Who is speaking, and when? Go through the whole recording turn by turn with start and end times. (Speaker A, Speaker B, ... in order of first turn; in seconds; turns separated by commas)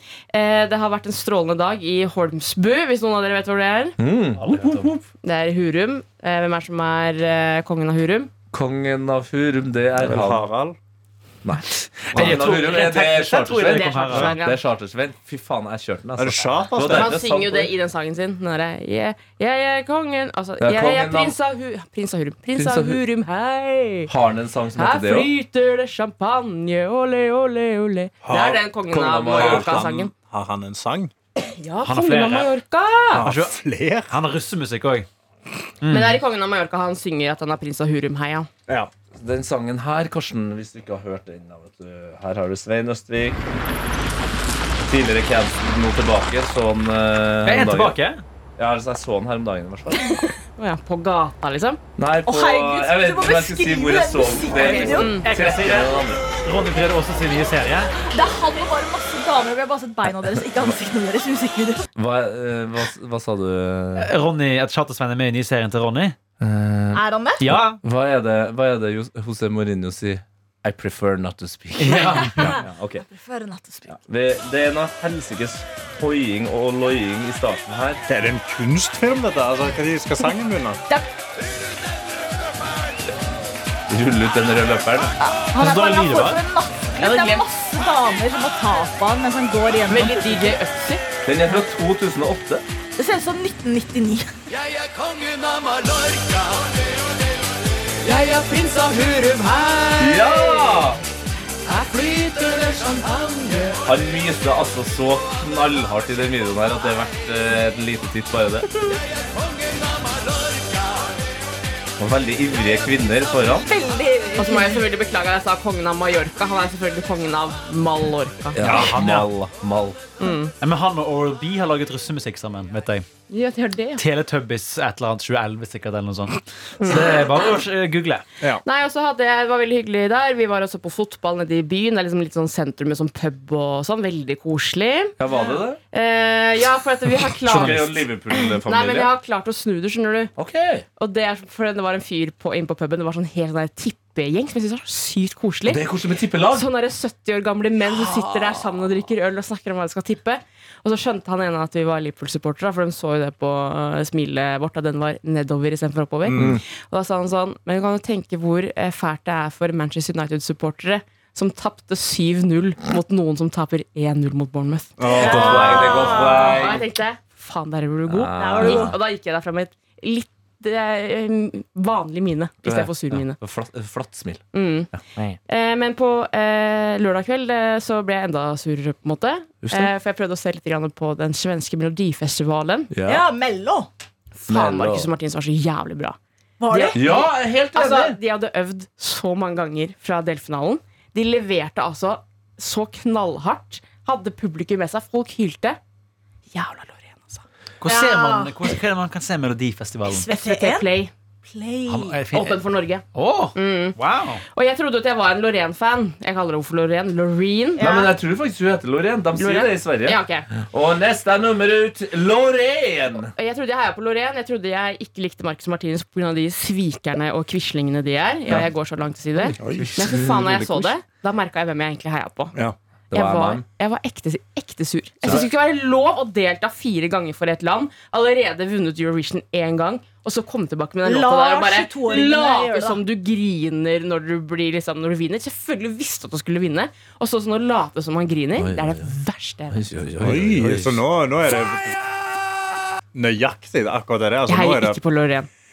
Speaker A: 0.3-4.0, Speaker B: 4.0-5.0, Speaker C: 4.3-4.9, Speaker A: 5.2-8.3, Speaker B: 8.5-10.4, Speaker D: 10.0-10.8, Speaker B: 11.4-17.7, Speaker C: 12.0-14.4, Speaker A: 12.4-12.8, Speaker A: 13.5-14.6, Speaker D: 16.2-17.1, Speaker A: 16.9-24.1, Speaker B: 20.6-21.3, Speaker B: 22.6-23.0, Speaker B: 24.1-25.3, Speaker A: 24.8-30.1, Speaker D: 28.2-28.6, Speaker B: 28.9-29.9, Speaker D: 29.3-31.1, Speaker A: 31.4-33.2, Speaker C: 31.8-32.5, Speaker D: 33.1-34.2, Speaker C: 33.2-33.6, Speaker C: 34.1-35.1, Speaker C: 35.8-36.2, Speaker A: 35.9-38.5, Speaker B: 39.1-43.4, Speaker B: 44.9-48.0, Speaker C: 47.4-48.2, Speaker B: 48.6-50.1, Speaker A: 50.0-51.8, Speaker B: 52.0-56.2, Speaker E: 52.2-55.2, Speaker C: 54.6-58.0, Speaker A: 54.6-55.3, Speaker E: 57.9-61.8, Speaker B: 62.0-64.1, Speaker C: 64.0-66.2, Speaker B: 66.4-73.0, Speaker E: 66.9-67.5, Speaker C: 67.4-67.8, Speaker C: 71.8-72.6, Speaker E: 71.9-74.0, Speaker B: 73.9-78.0, Speaker D: 78.1-80.8, Speaker B: 83.9-85.2, Speaker E: 85.2-90.5, Speaker C: 85.5-86.4, Speaker A: 87.0-87.4, Speaker A: 89.9-91.0, Speaker B: 91.2-92.6, Speaker E: 93.0-94.3, Speaker A: 98.1-100.6, Speaker B: 100.0-101.0, Speaker A: 101.7-103.6, Speaker B: 103.8-108.7, Speaker B: 112.0-113.7, Speaker E: 113.6-114.8, Speaker A: 114.3-118.6, Speaker B: 118.5-120.0, Speaker C: 118.6-119.3, Speaker A: 120.2-120.5, Speaker C: 120.6-123.1, Speaker A: 123.3-124.0, Speaker C: 124.0-128.2, Speaker A: 126.8-127.1, Speaker A: 128.6-135.1, Speaker B: 135.2-135.8, Speaker A: 135.9-140.3, Speaker B: 137.4-139.1, Speaker C: 137.5-137.8, Speaker B: 140.4-140.8, Speaker A: 141.0-145.8, Speaker B: 145.7-146.7, Speaker A: 146.5-173.4, Speaker B: 147.8-148.8, Speaker D: 156.2-156.6, Speaker B: 156.3-156.6, Speaker D: 165.0-165.9, Speaker E: 165.1-166.7, Speaker B: 165.1-166.8, Speaker B: 168.1-168.9, Speaker E: 168.4-168.9, Speaker B: 172.6-175.4, Speaker A: 174.5-174.9, Speaker A: 175.4-182.9, Speaker B: 179.6-179.9, Speaker B: 182.9-183.2, Speaker E: 183.0-183.9, Speaker A: 184.3-186.2, Speaker B: 184.5-185.1, Speaker E: 186.6-187.3, Speaker A: 186.7-195.8, Speaker B: 186.9-188.2, Speaker A: 196.5-197.4, Speaker C: 197.8-200.3, Speaker E: 197.8-198.7, Speaker E: 200.1-200.9, Speaker A: 200.3-201.1, Speaker E: 201.4-202.2, Speaker C: 201.8-204.4, Speaker A: 202.3-204.0, Speaker A: 204.5-207.9, Speaker E: 207.8-208.1, Speaker B: 207.8-213.3, Speaker A: 209.3-210.5, Speaker A: 213.3-222.5, Speaker D: 219.6-220.2, Speaker B: 219.6-220.9, Speaker B: 223.1-223.6, Speaker A: 223.1-239.9, Speaker E: 231.0-233.0, Speaker B: 238.6-239.1, Speaker B: 239.7-241.0, Speaker D: 240.2-242.0, Speaker D: 243.1-245.0, Speaker A: 244.5-245.5